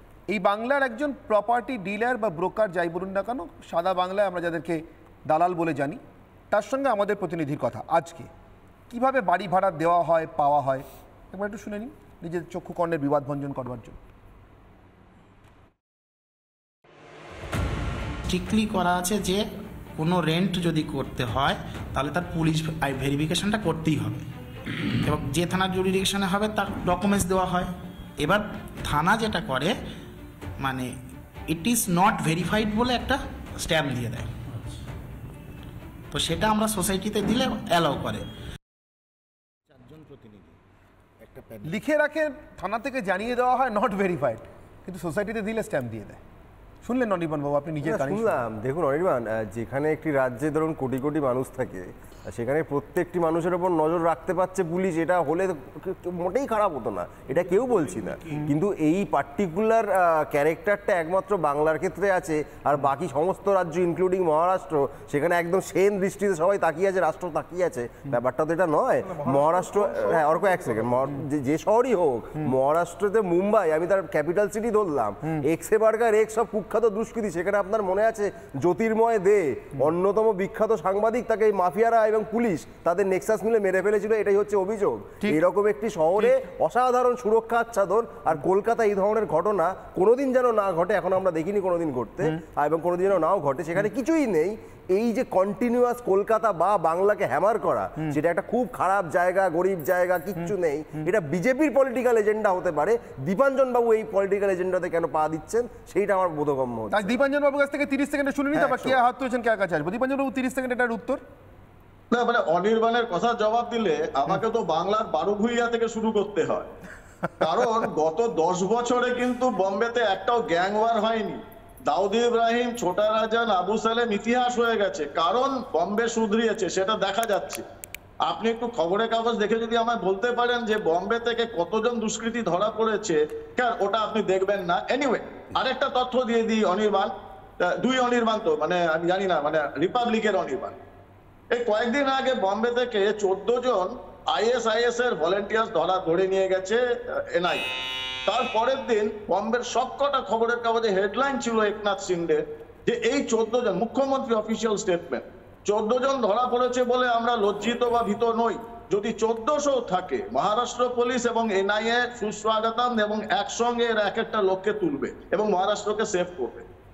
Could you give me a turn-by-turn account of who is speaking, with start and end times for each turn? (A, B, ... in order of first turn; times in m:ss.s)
0:00.3-0:08.3 A
0:08.9-0:14.0 A
0:18.3-0:19.4 B
0:20.0-0:24.3 B
0:25.0-0:29.8 B
0:30.6-0:30.9 B
0:31.5-0:34.3 B
0:36.1-0:38.3 B
0:39.7-0:40.6 B
0:41.2-0:41.7 B
0:41.6-0:46.2 A
0:46.8-0:48.4 A
0:47.8-1:47.2 C
1:09.2-1:11.1 A
1:46.9-1:51.2 A
1:48.6-1:49.0 C
1:52.1-1:56.7 D
1:57.4-2:07.6 D
2:08.2-2:20.8 D
2:21.5-2:27.7 D
2:28.3-2:46.7 D